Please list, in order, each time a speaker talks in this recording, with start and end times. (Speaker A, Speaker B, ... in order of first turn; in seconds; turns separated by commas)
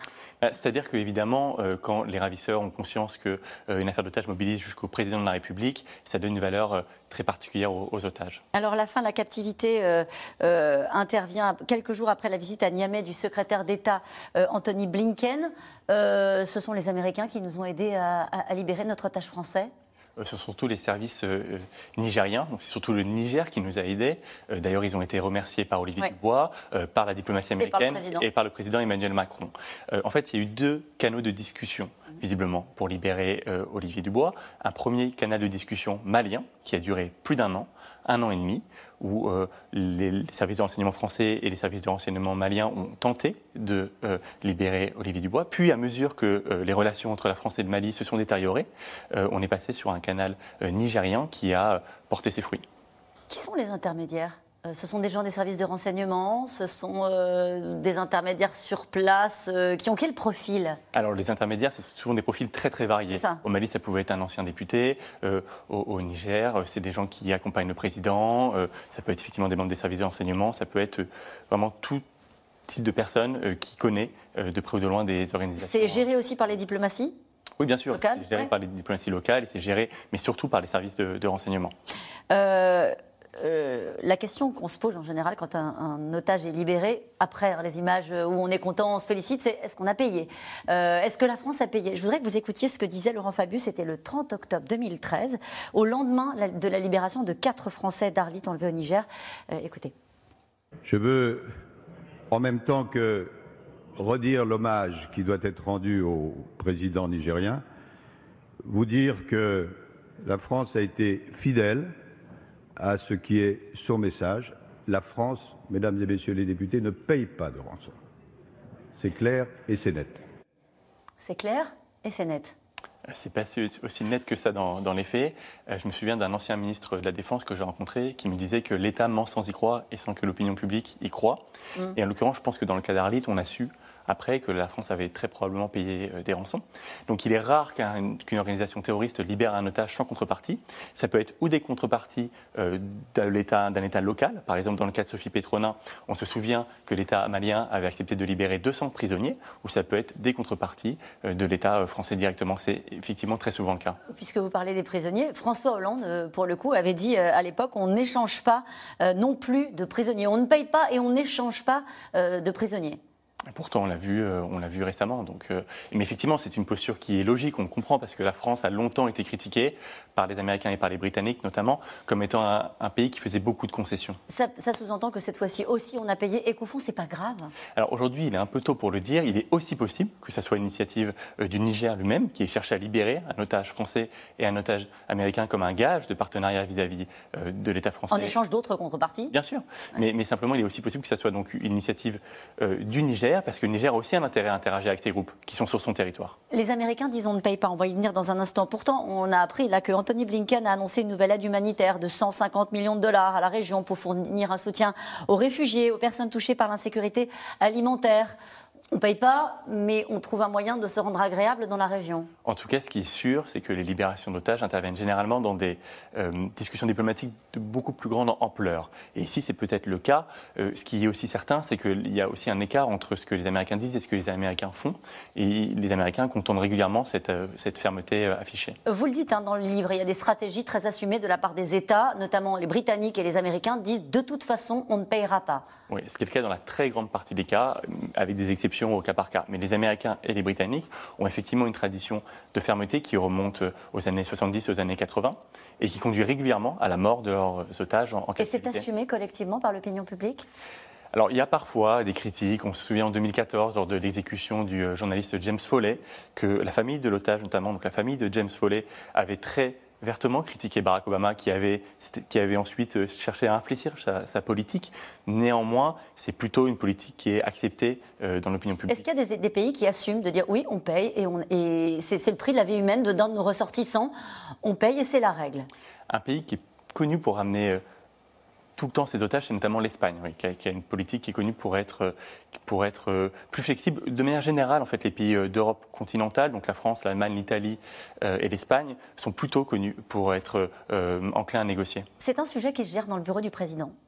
Speaker A: 0.4-8.4, Speaker B: 8.5-19.7, Speaker A: 20.2-52.6, Speaker B: 27.6-28.2, Speaker B: 53.3-60.8, Speaker A: 60.9-72.0, Speaker B: 63.1-63.4, Speaker A: 72.7-76.0, Speaker B: 75.6-77.1, Speaker A: 77.6-81.7, Speaker B: 77.9-78.5, Speaker B: 82.3-99.9, Speaker C: 100.8-101.5, Speaker C: 102.3-103.3, Speaker C: 104.0-107.6, Speaker C: 108.6-111.9, Speaker C: 112.8-117.9, Speaker C: 118.9-120.2, Speaker B: 121.2-122.5, Speaker A: 123.1-131.4, Speaker A: 131.9-154.0, Speaker B: 154.1-163.0, Speaker A: 163.5-174.2, Speaker B: 174.3-177.5, Speaker A: 177.8-188.3, Speaker B: 188.1-189.3, Speaker A: 189.3-196.3, Speaker B: 196.5-208.3, Speaker B: 208.9-212.3, Speaker A: 212.4-228.8, Speaker B: 228.8-235.7, Speaker A: 235.9-248.8, Speaker B: 248.4-250.4, Speaker A: 251.1-269.1, Speaker B: 268.9-275.7, Speaker A: 276.1-277.8, Speaker A: 278.8-282.1, Speaker A: 282.6-292.1, Speaker B: 292.2-293.9